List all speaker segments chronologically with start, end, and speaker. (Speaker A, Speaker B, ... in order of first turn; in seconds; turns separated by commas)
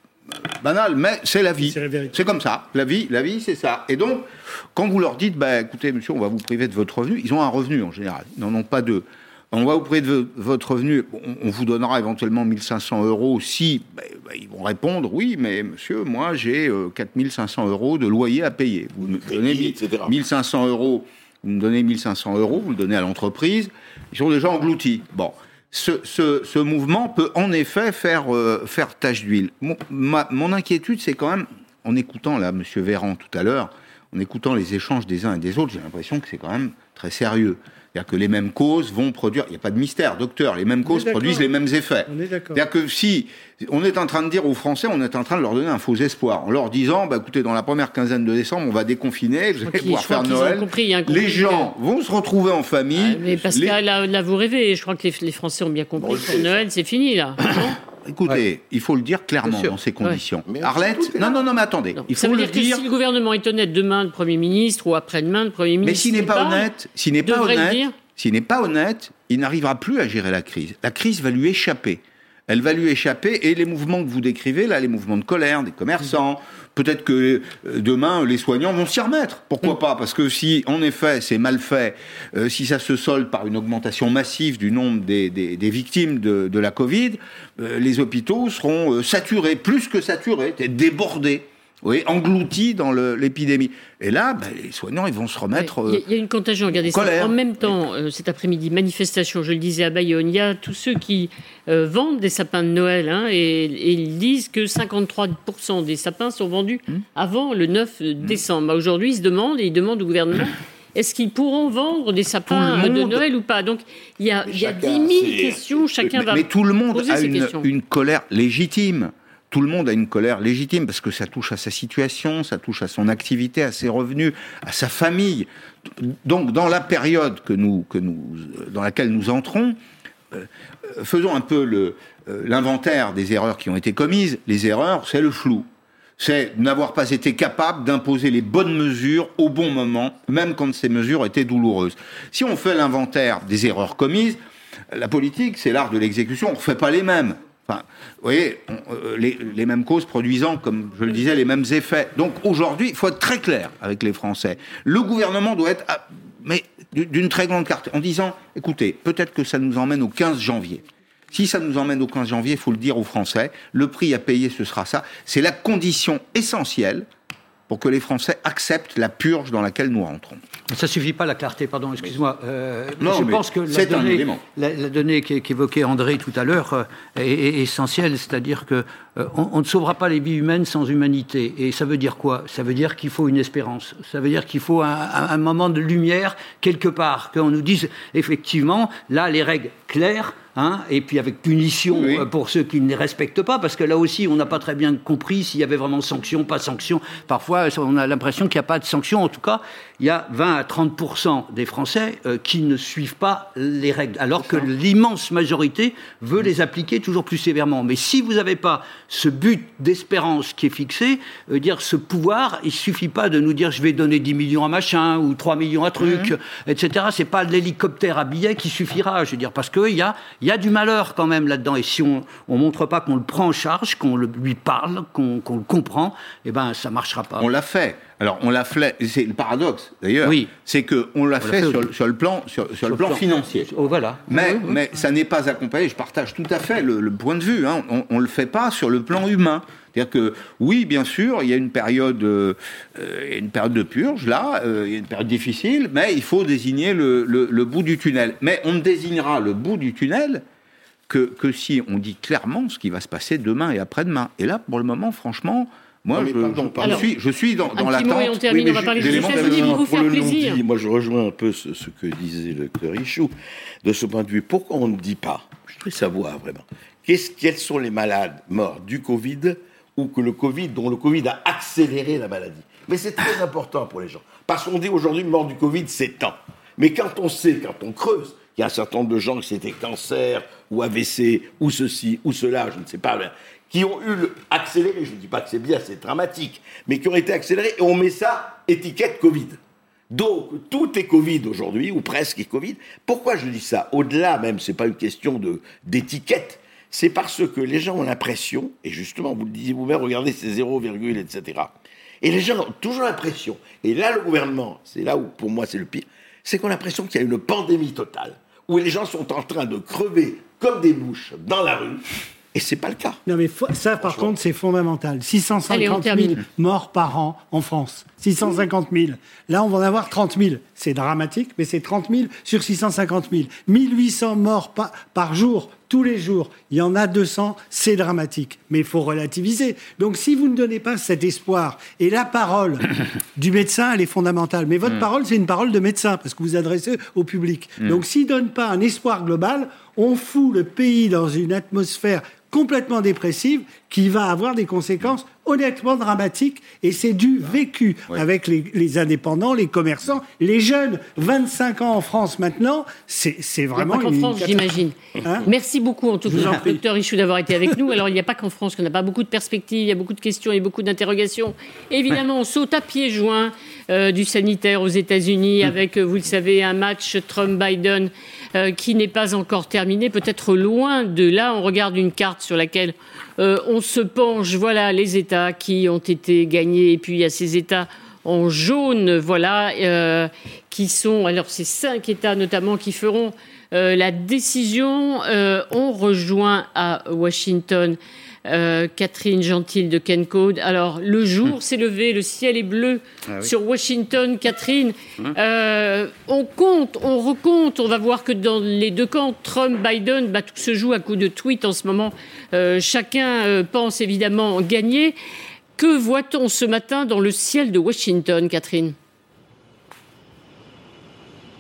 Speaker A: 0.5-53.8, Speaker B: 1.6-2.1, Speaker C: 19.2-20.2, Speaker B: 40.9-41.5, Speaker B: 42.1-42.6, Speaker D: 49.6-51.7, Speaker D: 53.1-57.8, Speaker C: 56.0-56.7, Speaker A: 58.1-62.9, Speaker C: 60.5-61.5, Speaker D: 62.0-66.7, Speaker A: 65.8-96.0, Speaker D: 67.2-68.0, Speaker D: 95.5-117.7, Speaker A: 96.8-97.4, Speaker A: 112.5-113.2, Speaker C: 114.5-116.2, Speaker A: 116.2-129.8, Speaker A: 130.3-167.1, Speaker A: 167.7-170.4, Speaker E: 170.7-227.5, Speaker A: 173.0-174.4, Speaker A: 191.9-192.3, Speaker A: 216.0-216.3, Speaker A: 227.4-233.7, Speaker E: 230.2-230.5, Speaker E: 231.4-231.9, Speaker E: 232.8-234.8, Speaker A: 234.3-250.4, Speaker A: 251.1-258.4, Speaker C: 256.2-257.1, Speaker D: 256.8-257.1, Speaker D: 257.7-260.6, Speaker C: 258.4-263.3, Speaker A: 259.0-259.9, Speaker C: 263.8-289.6, Speaker C: 290.1-313.2, Speaker B: 313.3-332.9, Speaker C: 314.0-314.3, Speaker D: 315.7-316.4, Speaker B: 333.4-355.5, Speaker D: 353.8-405.2, Speaker B: 356.3-356.8, Speaker D: 405.8-408.9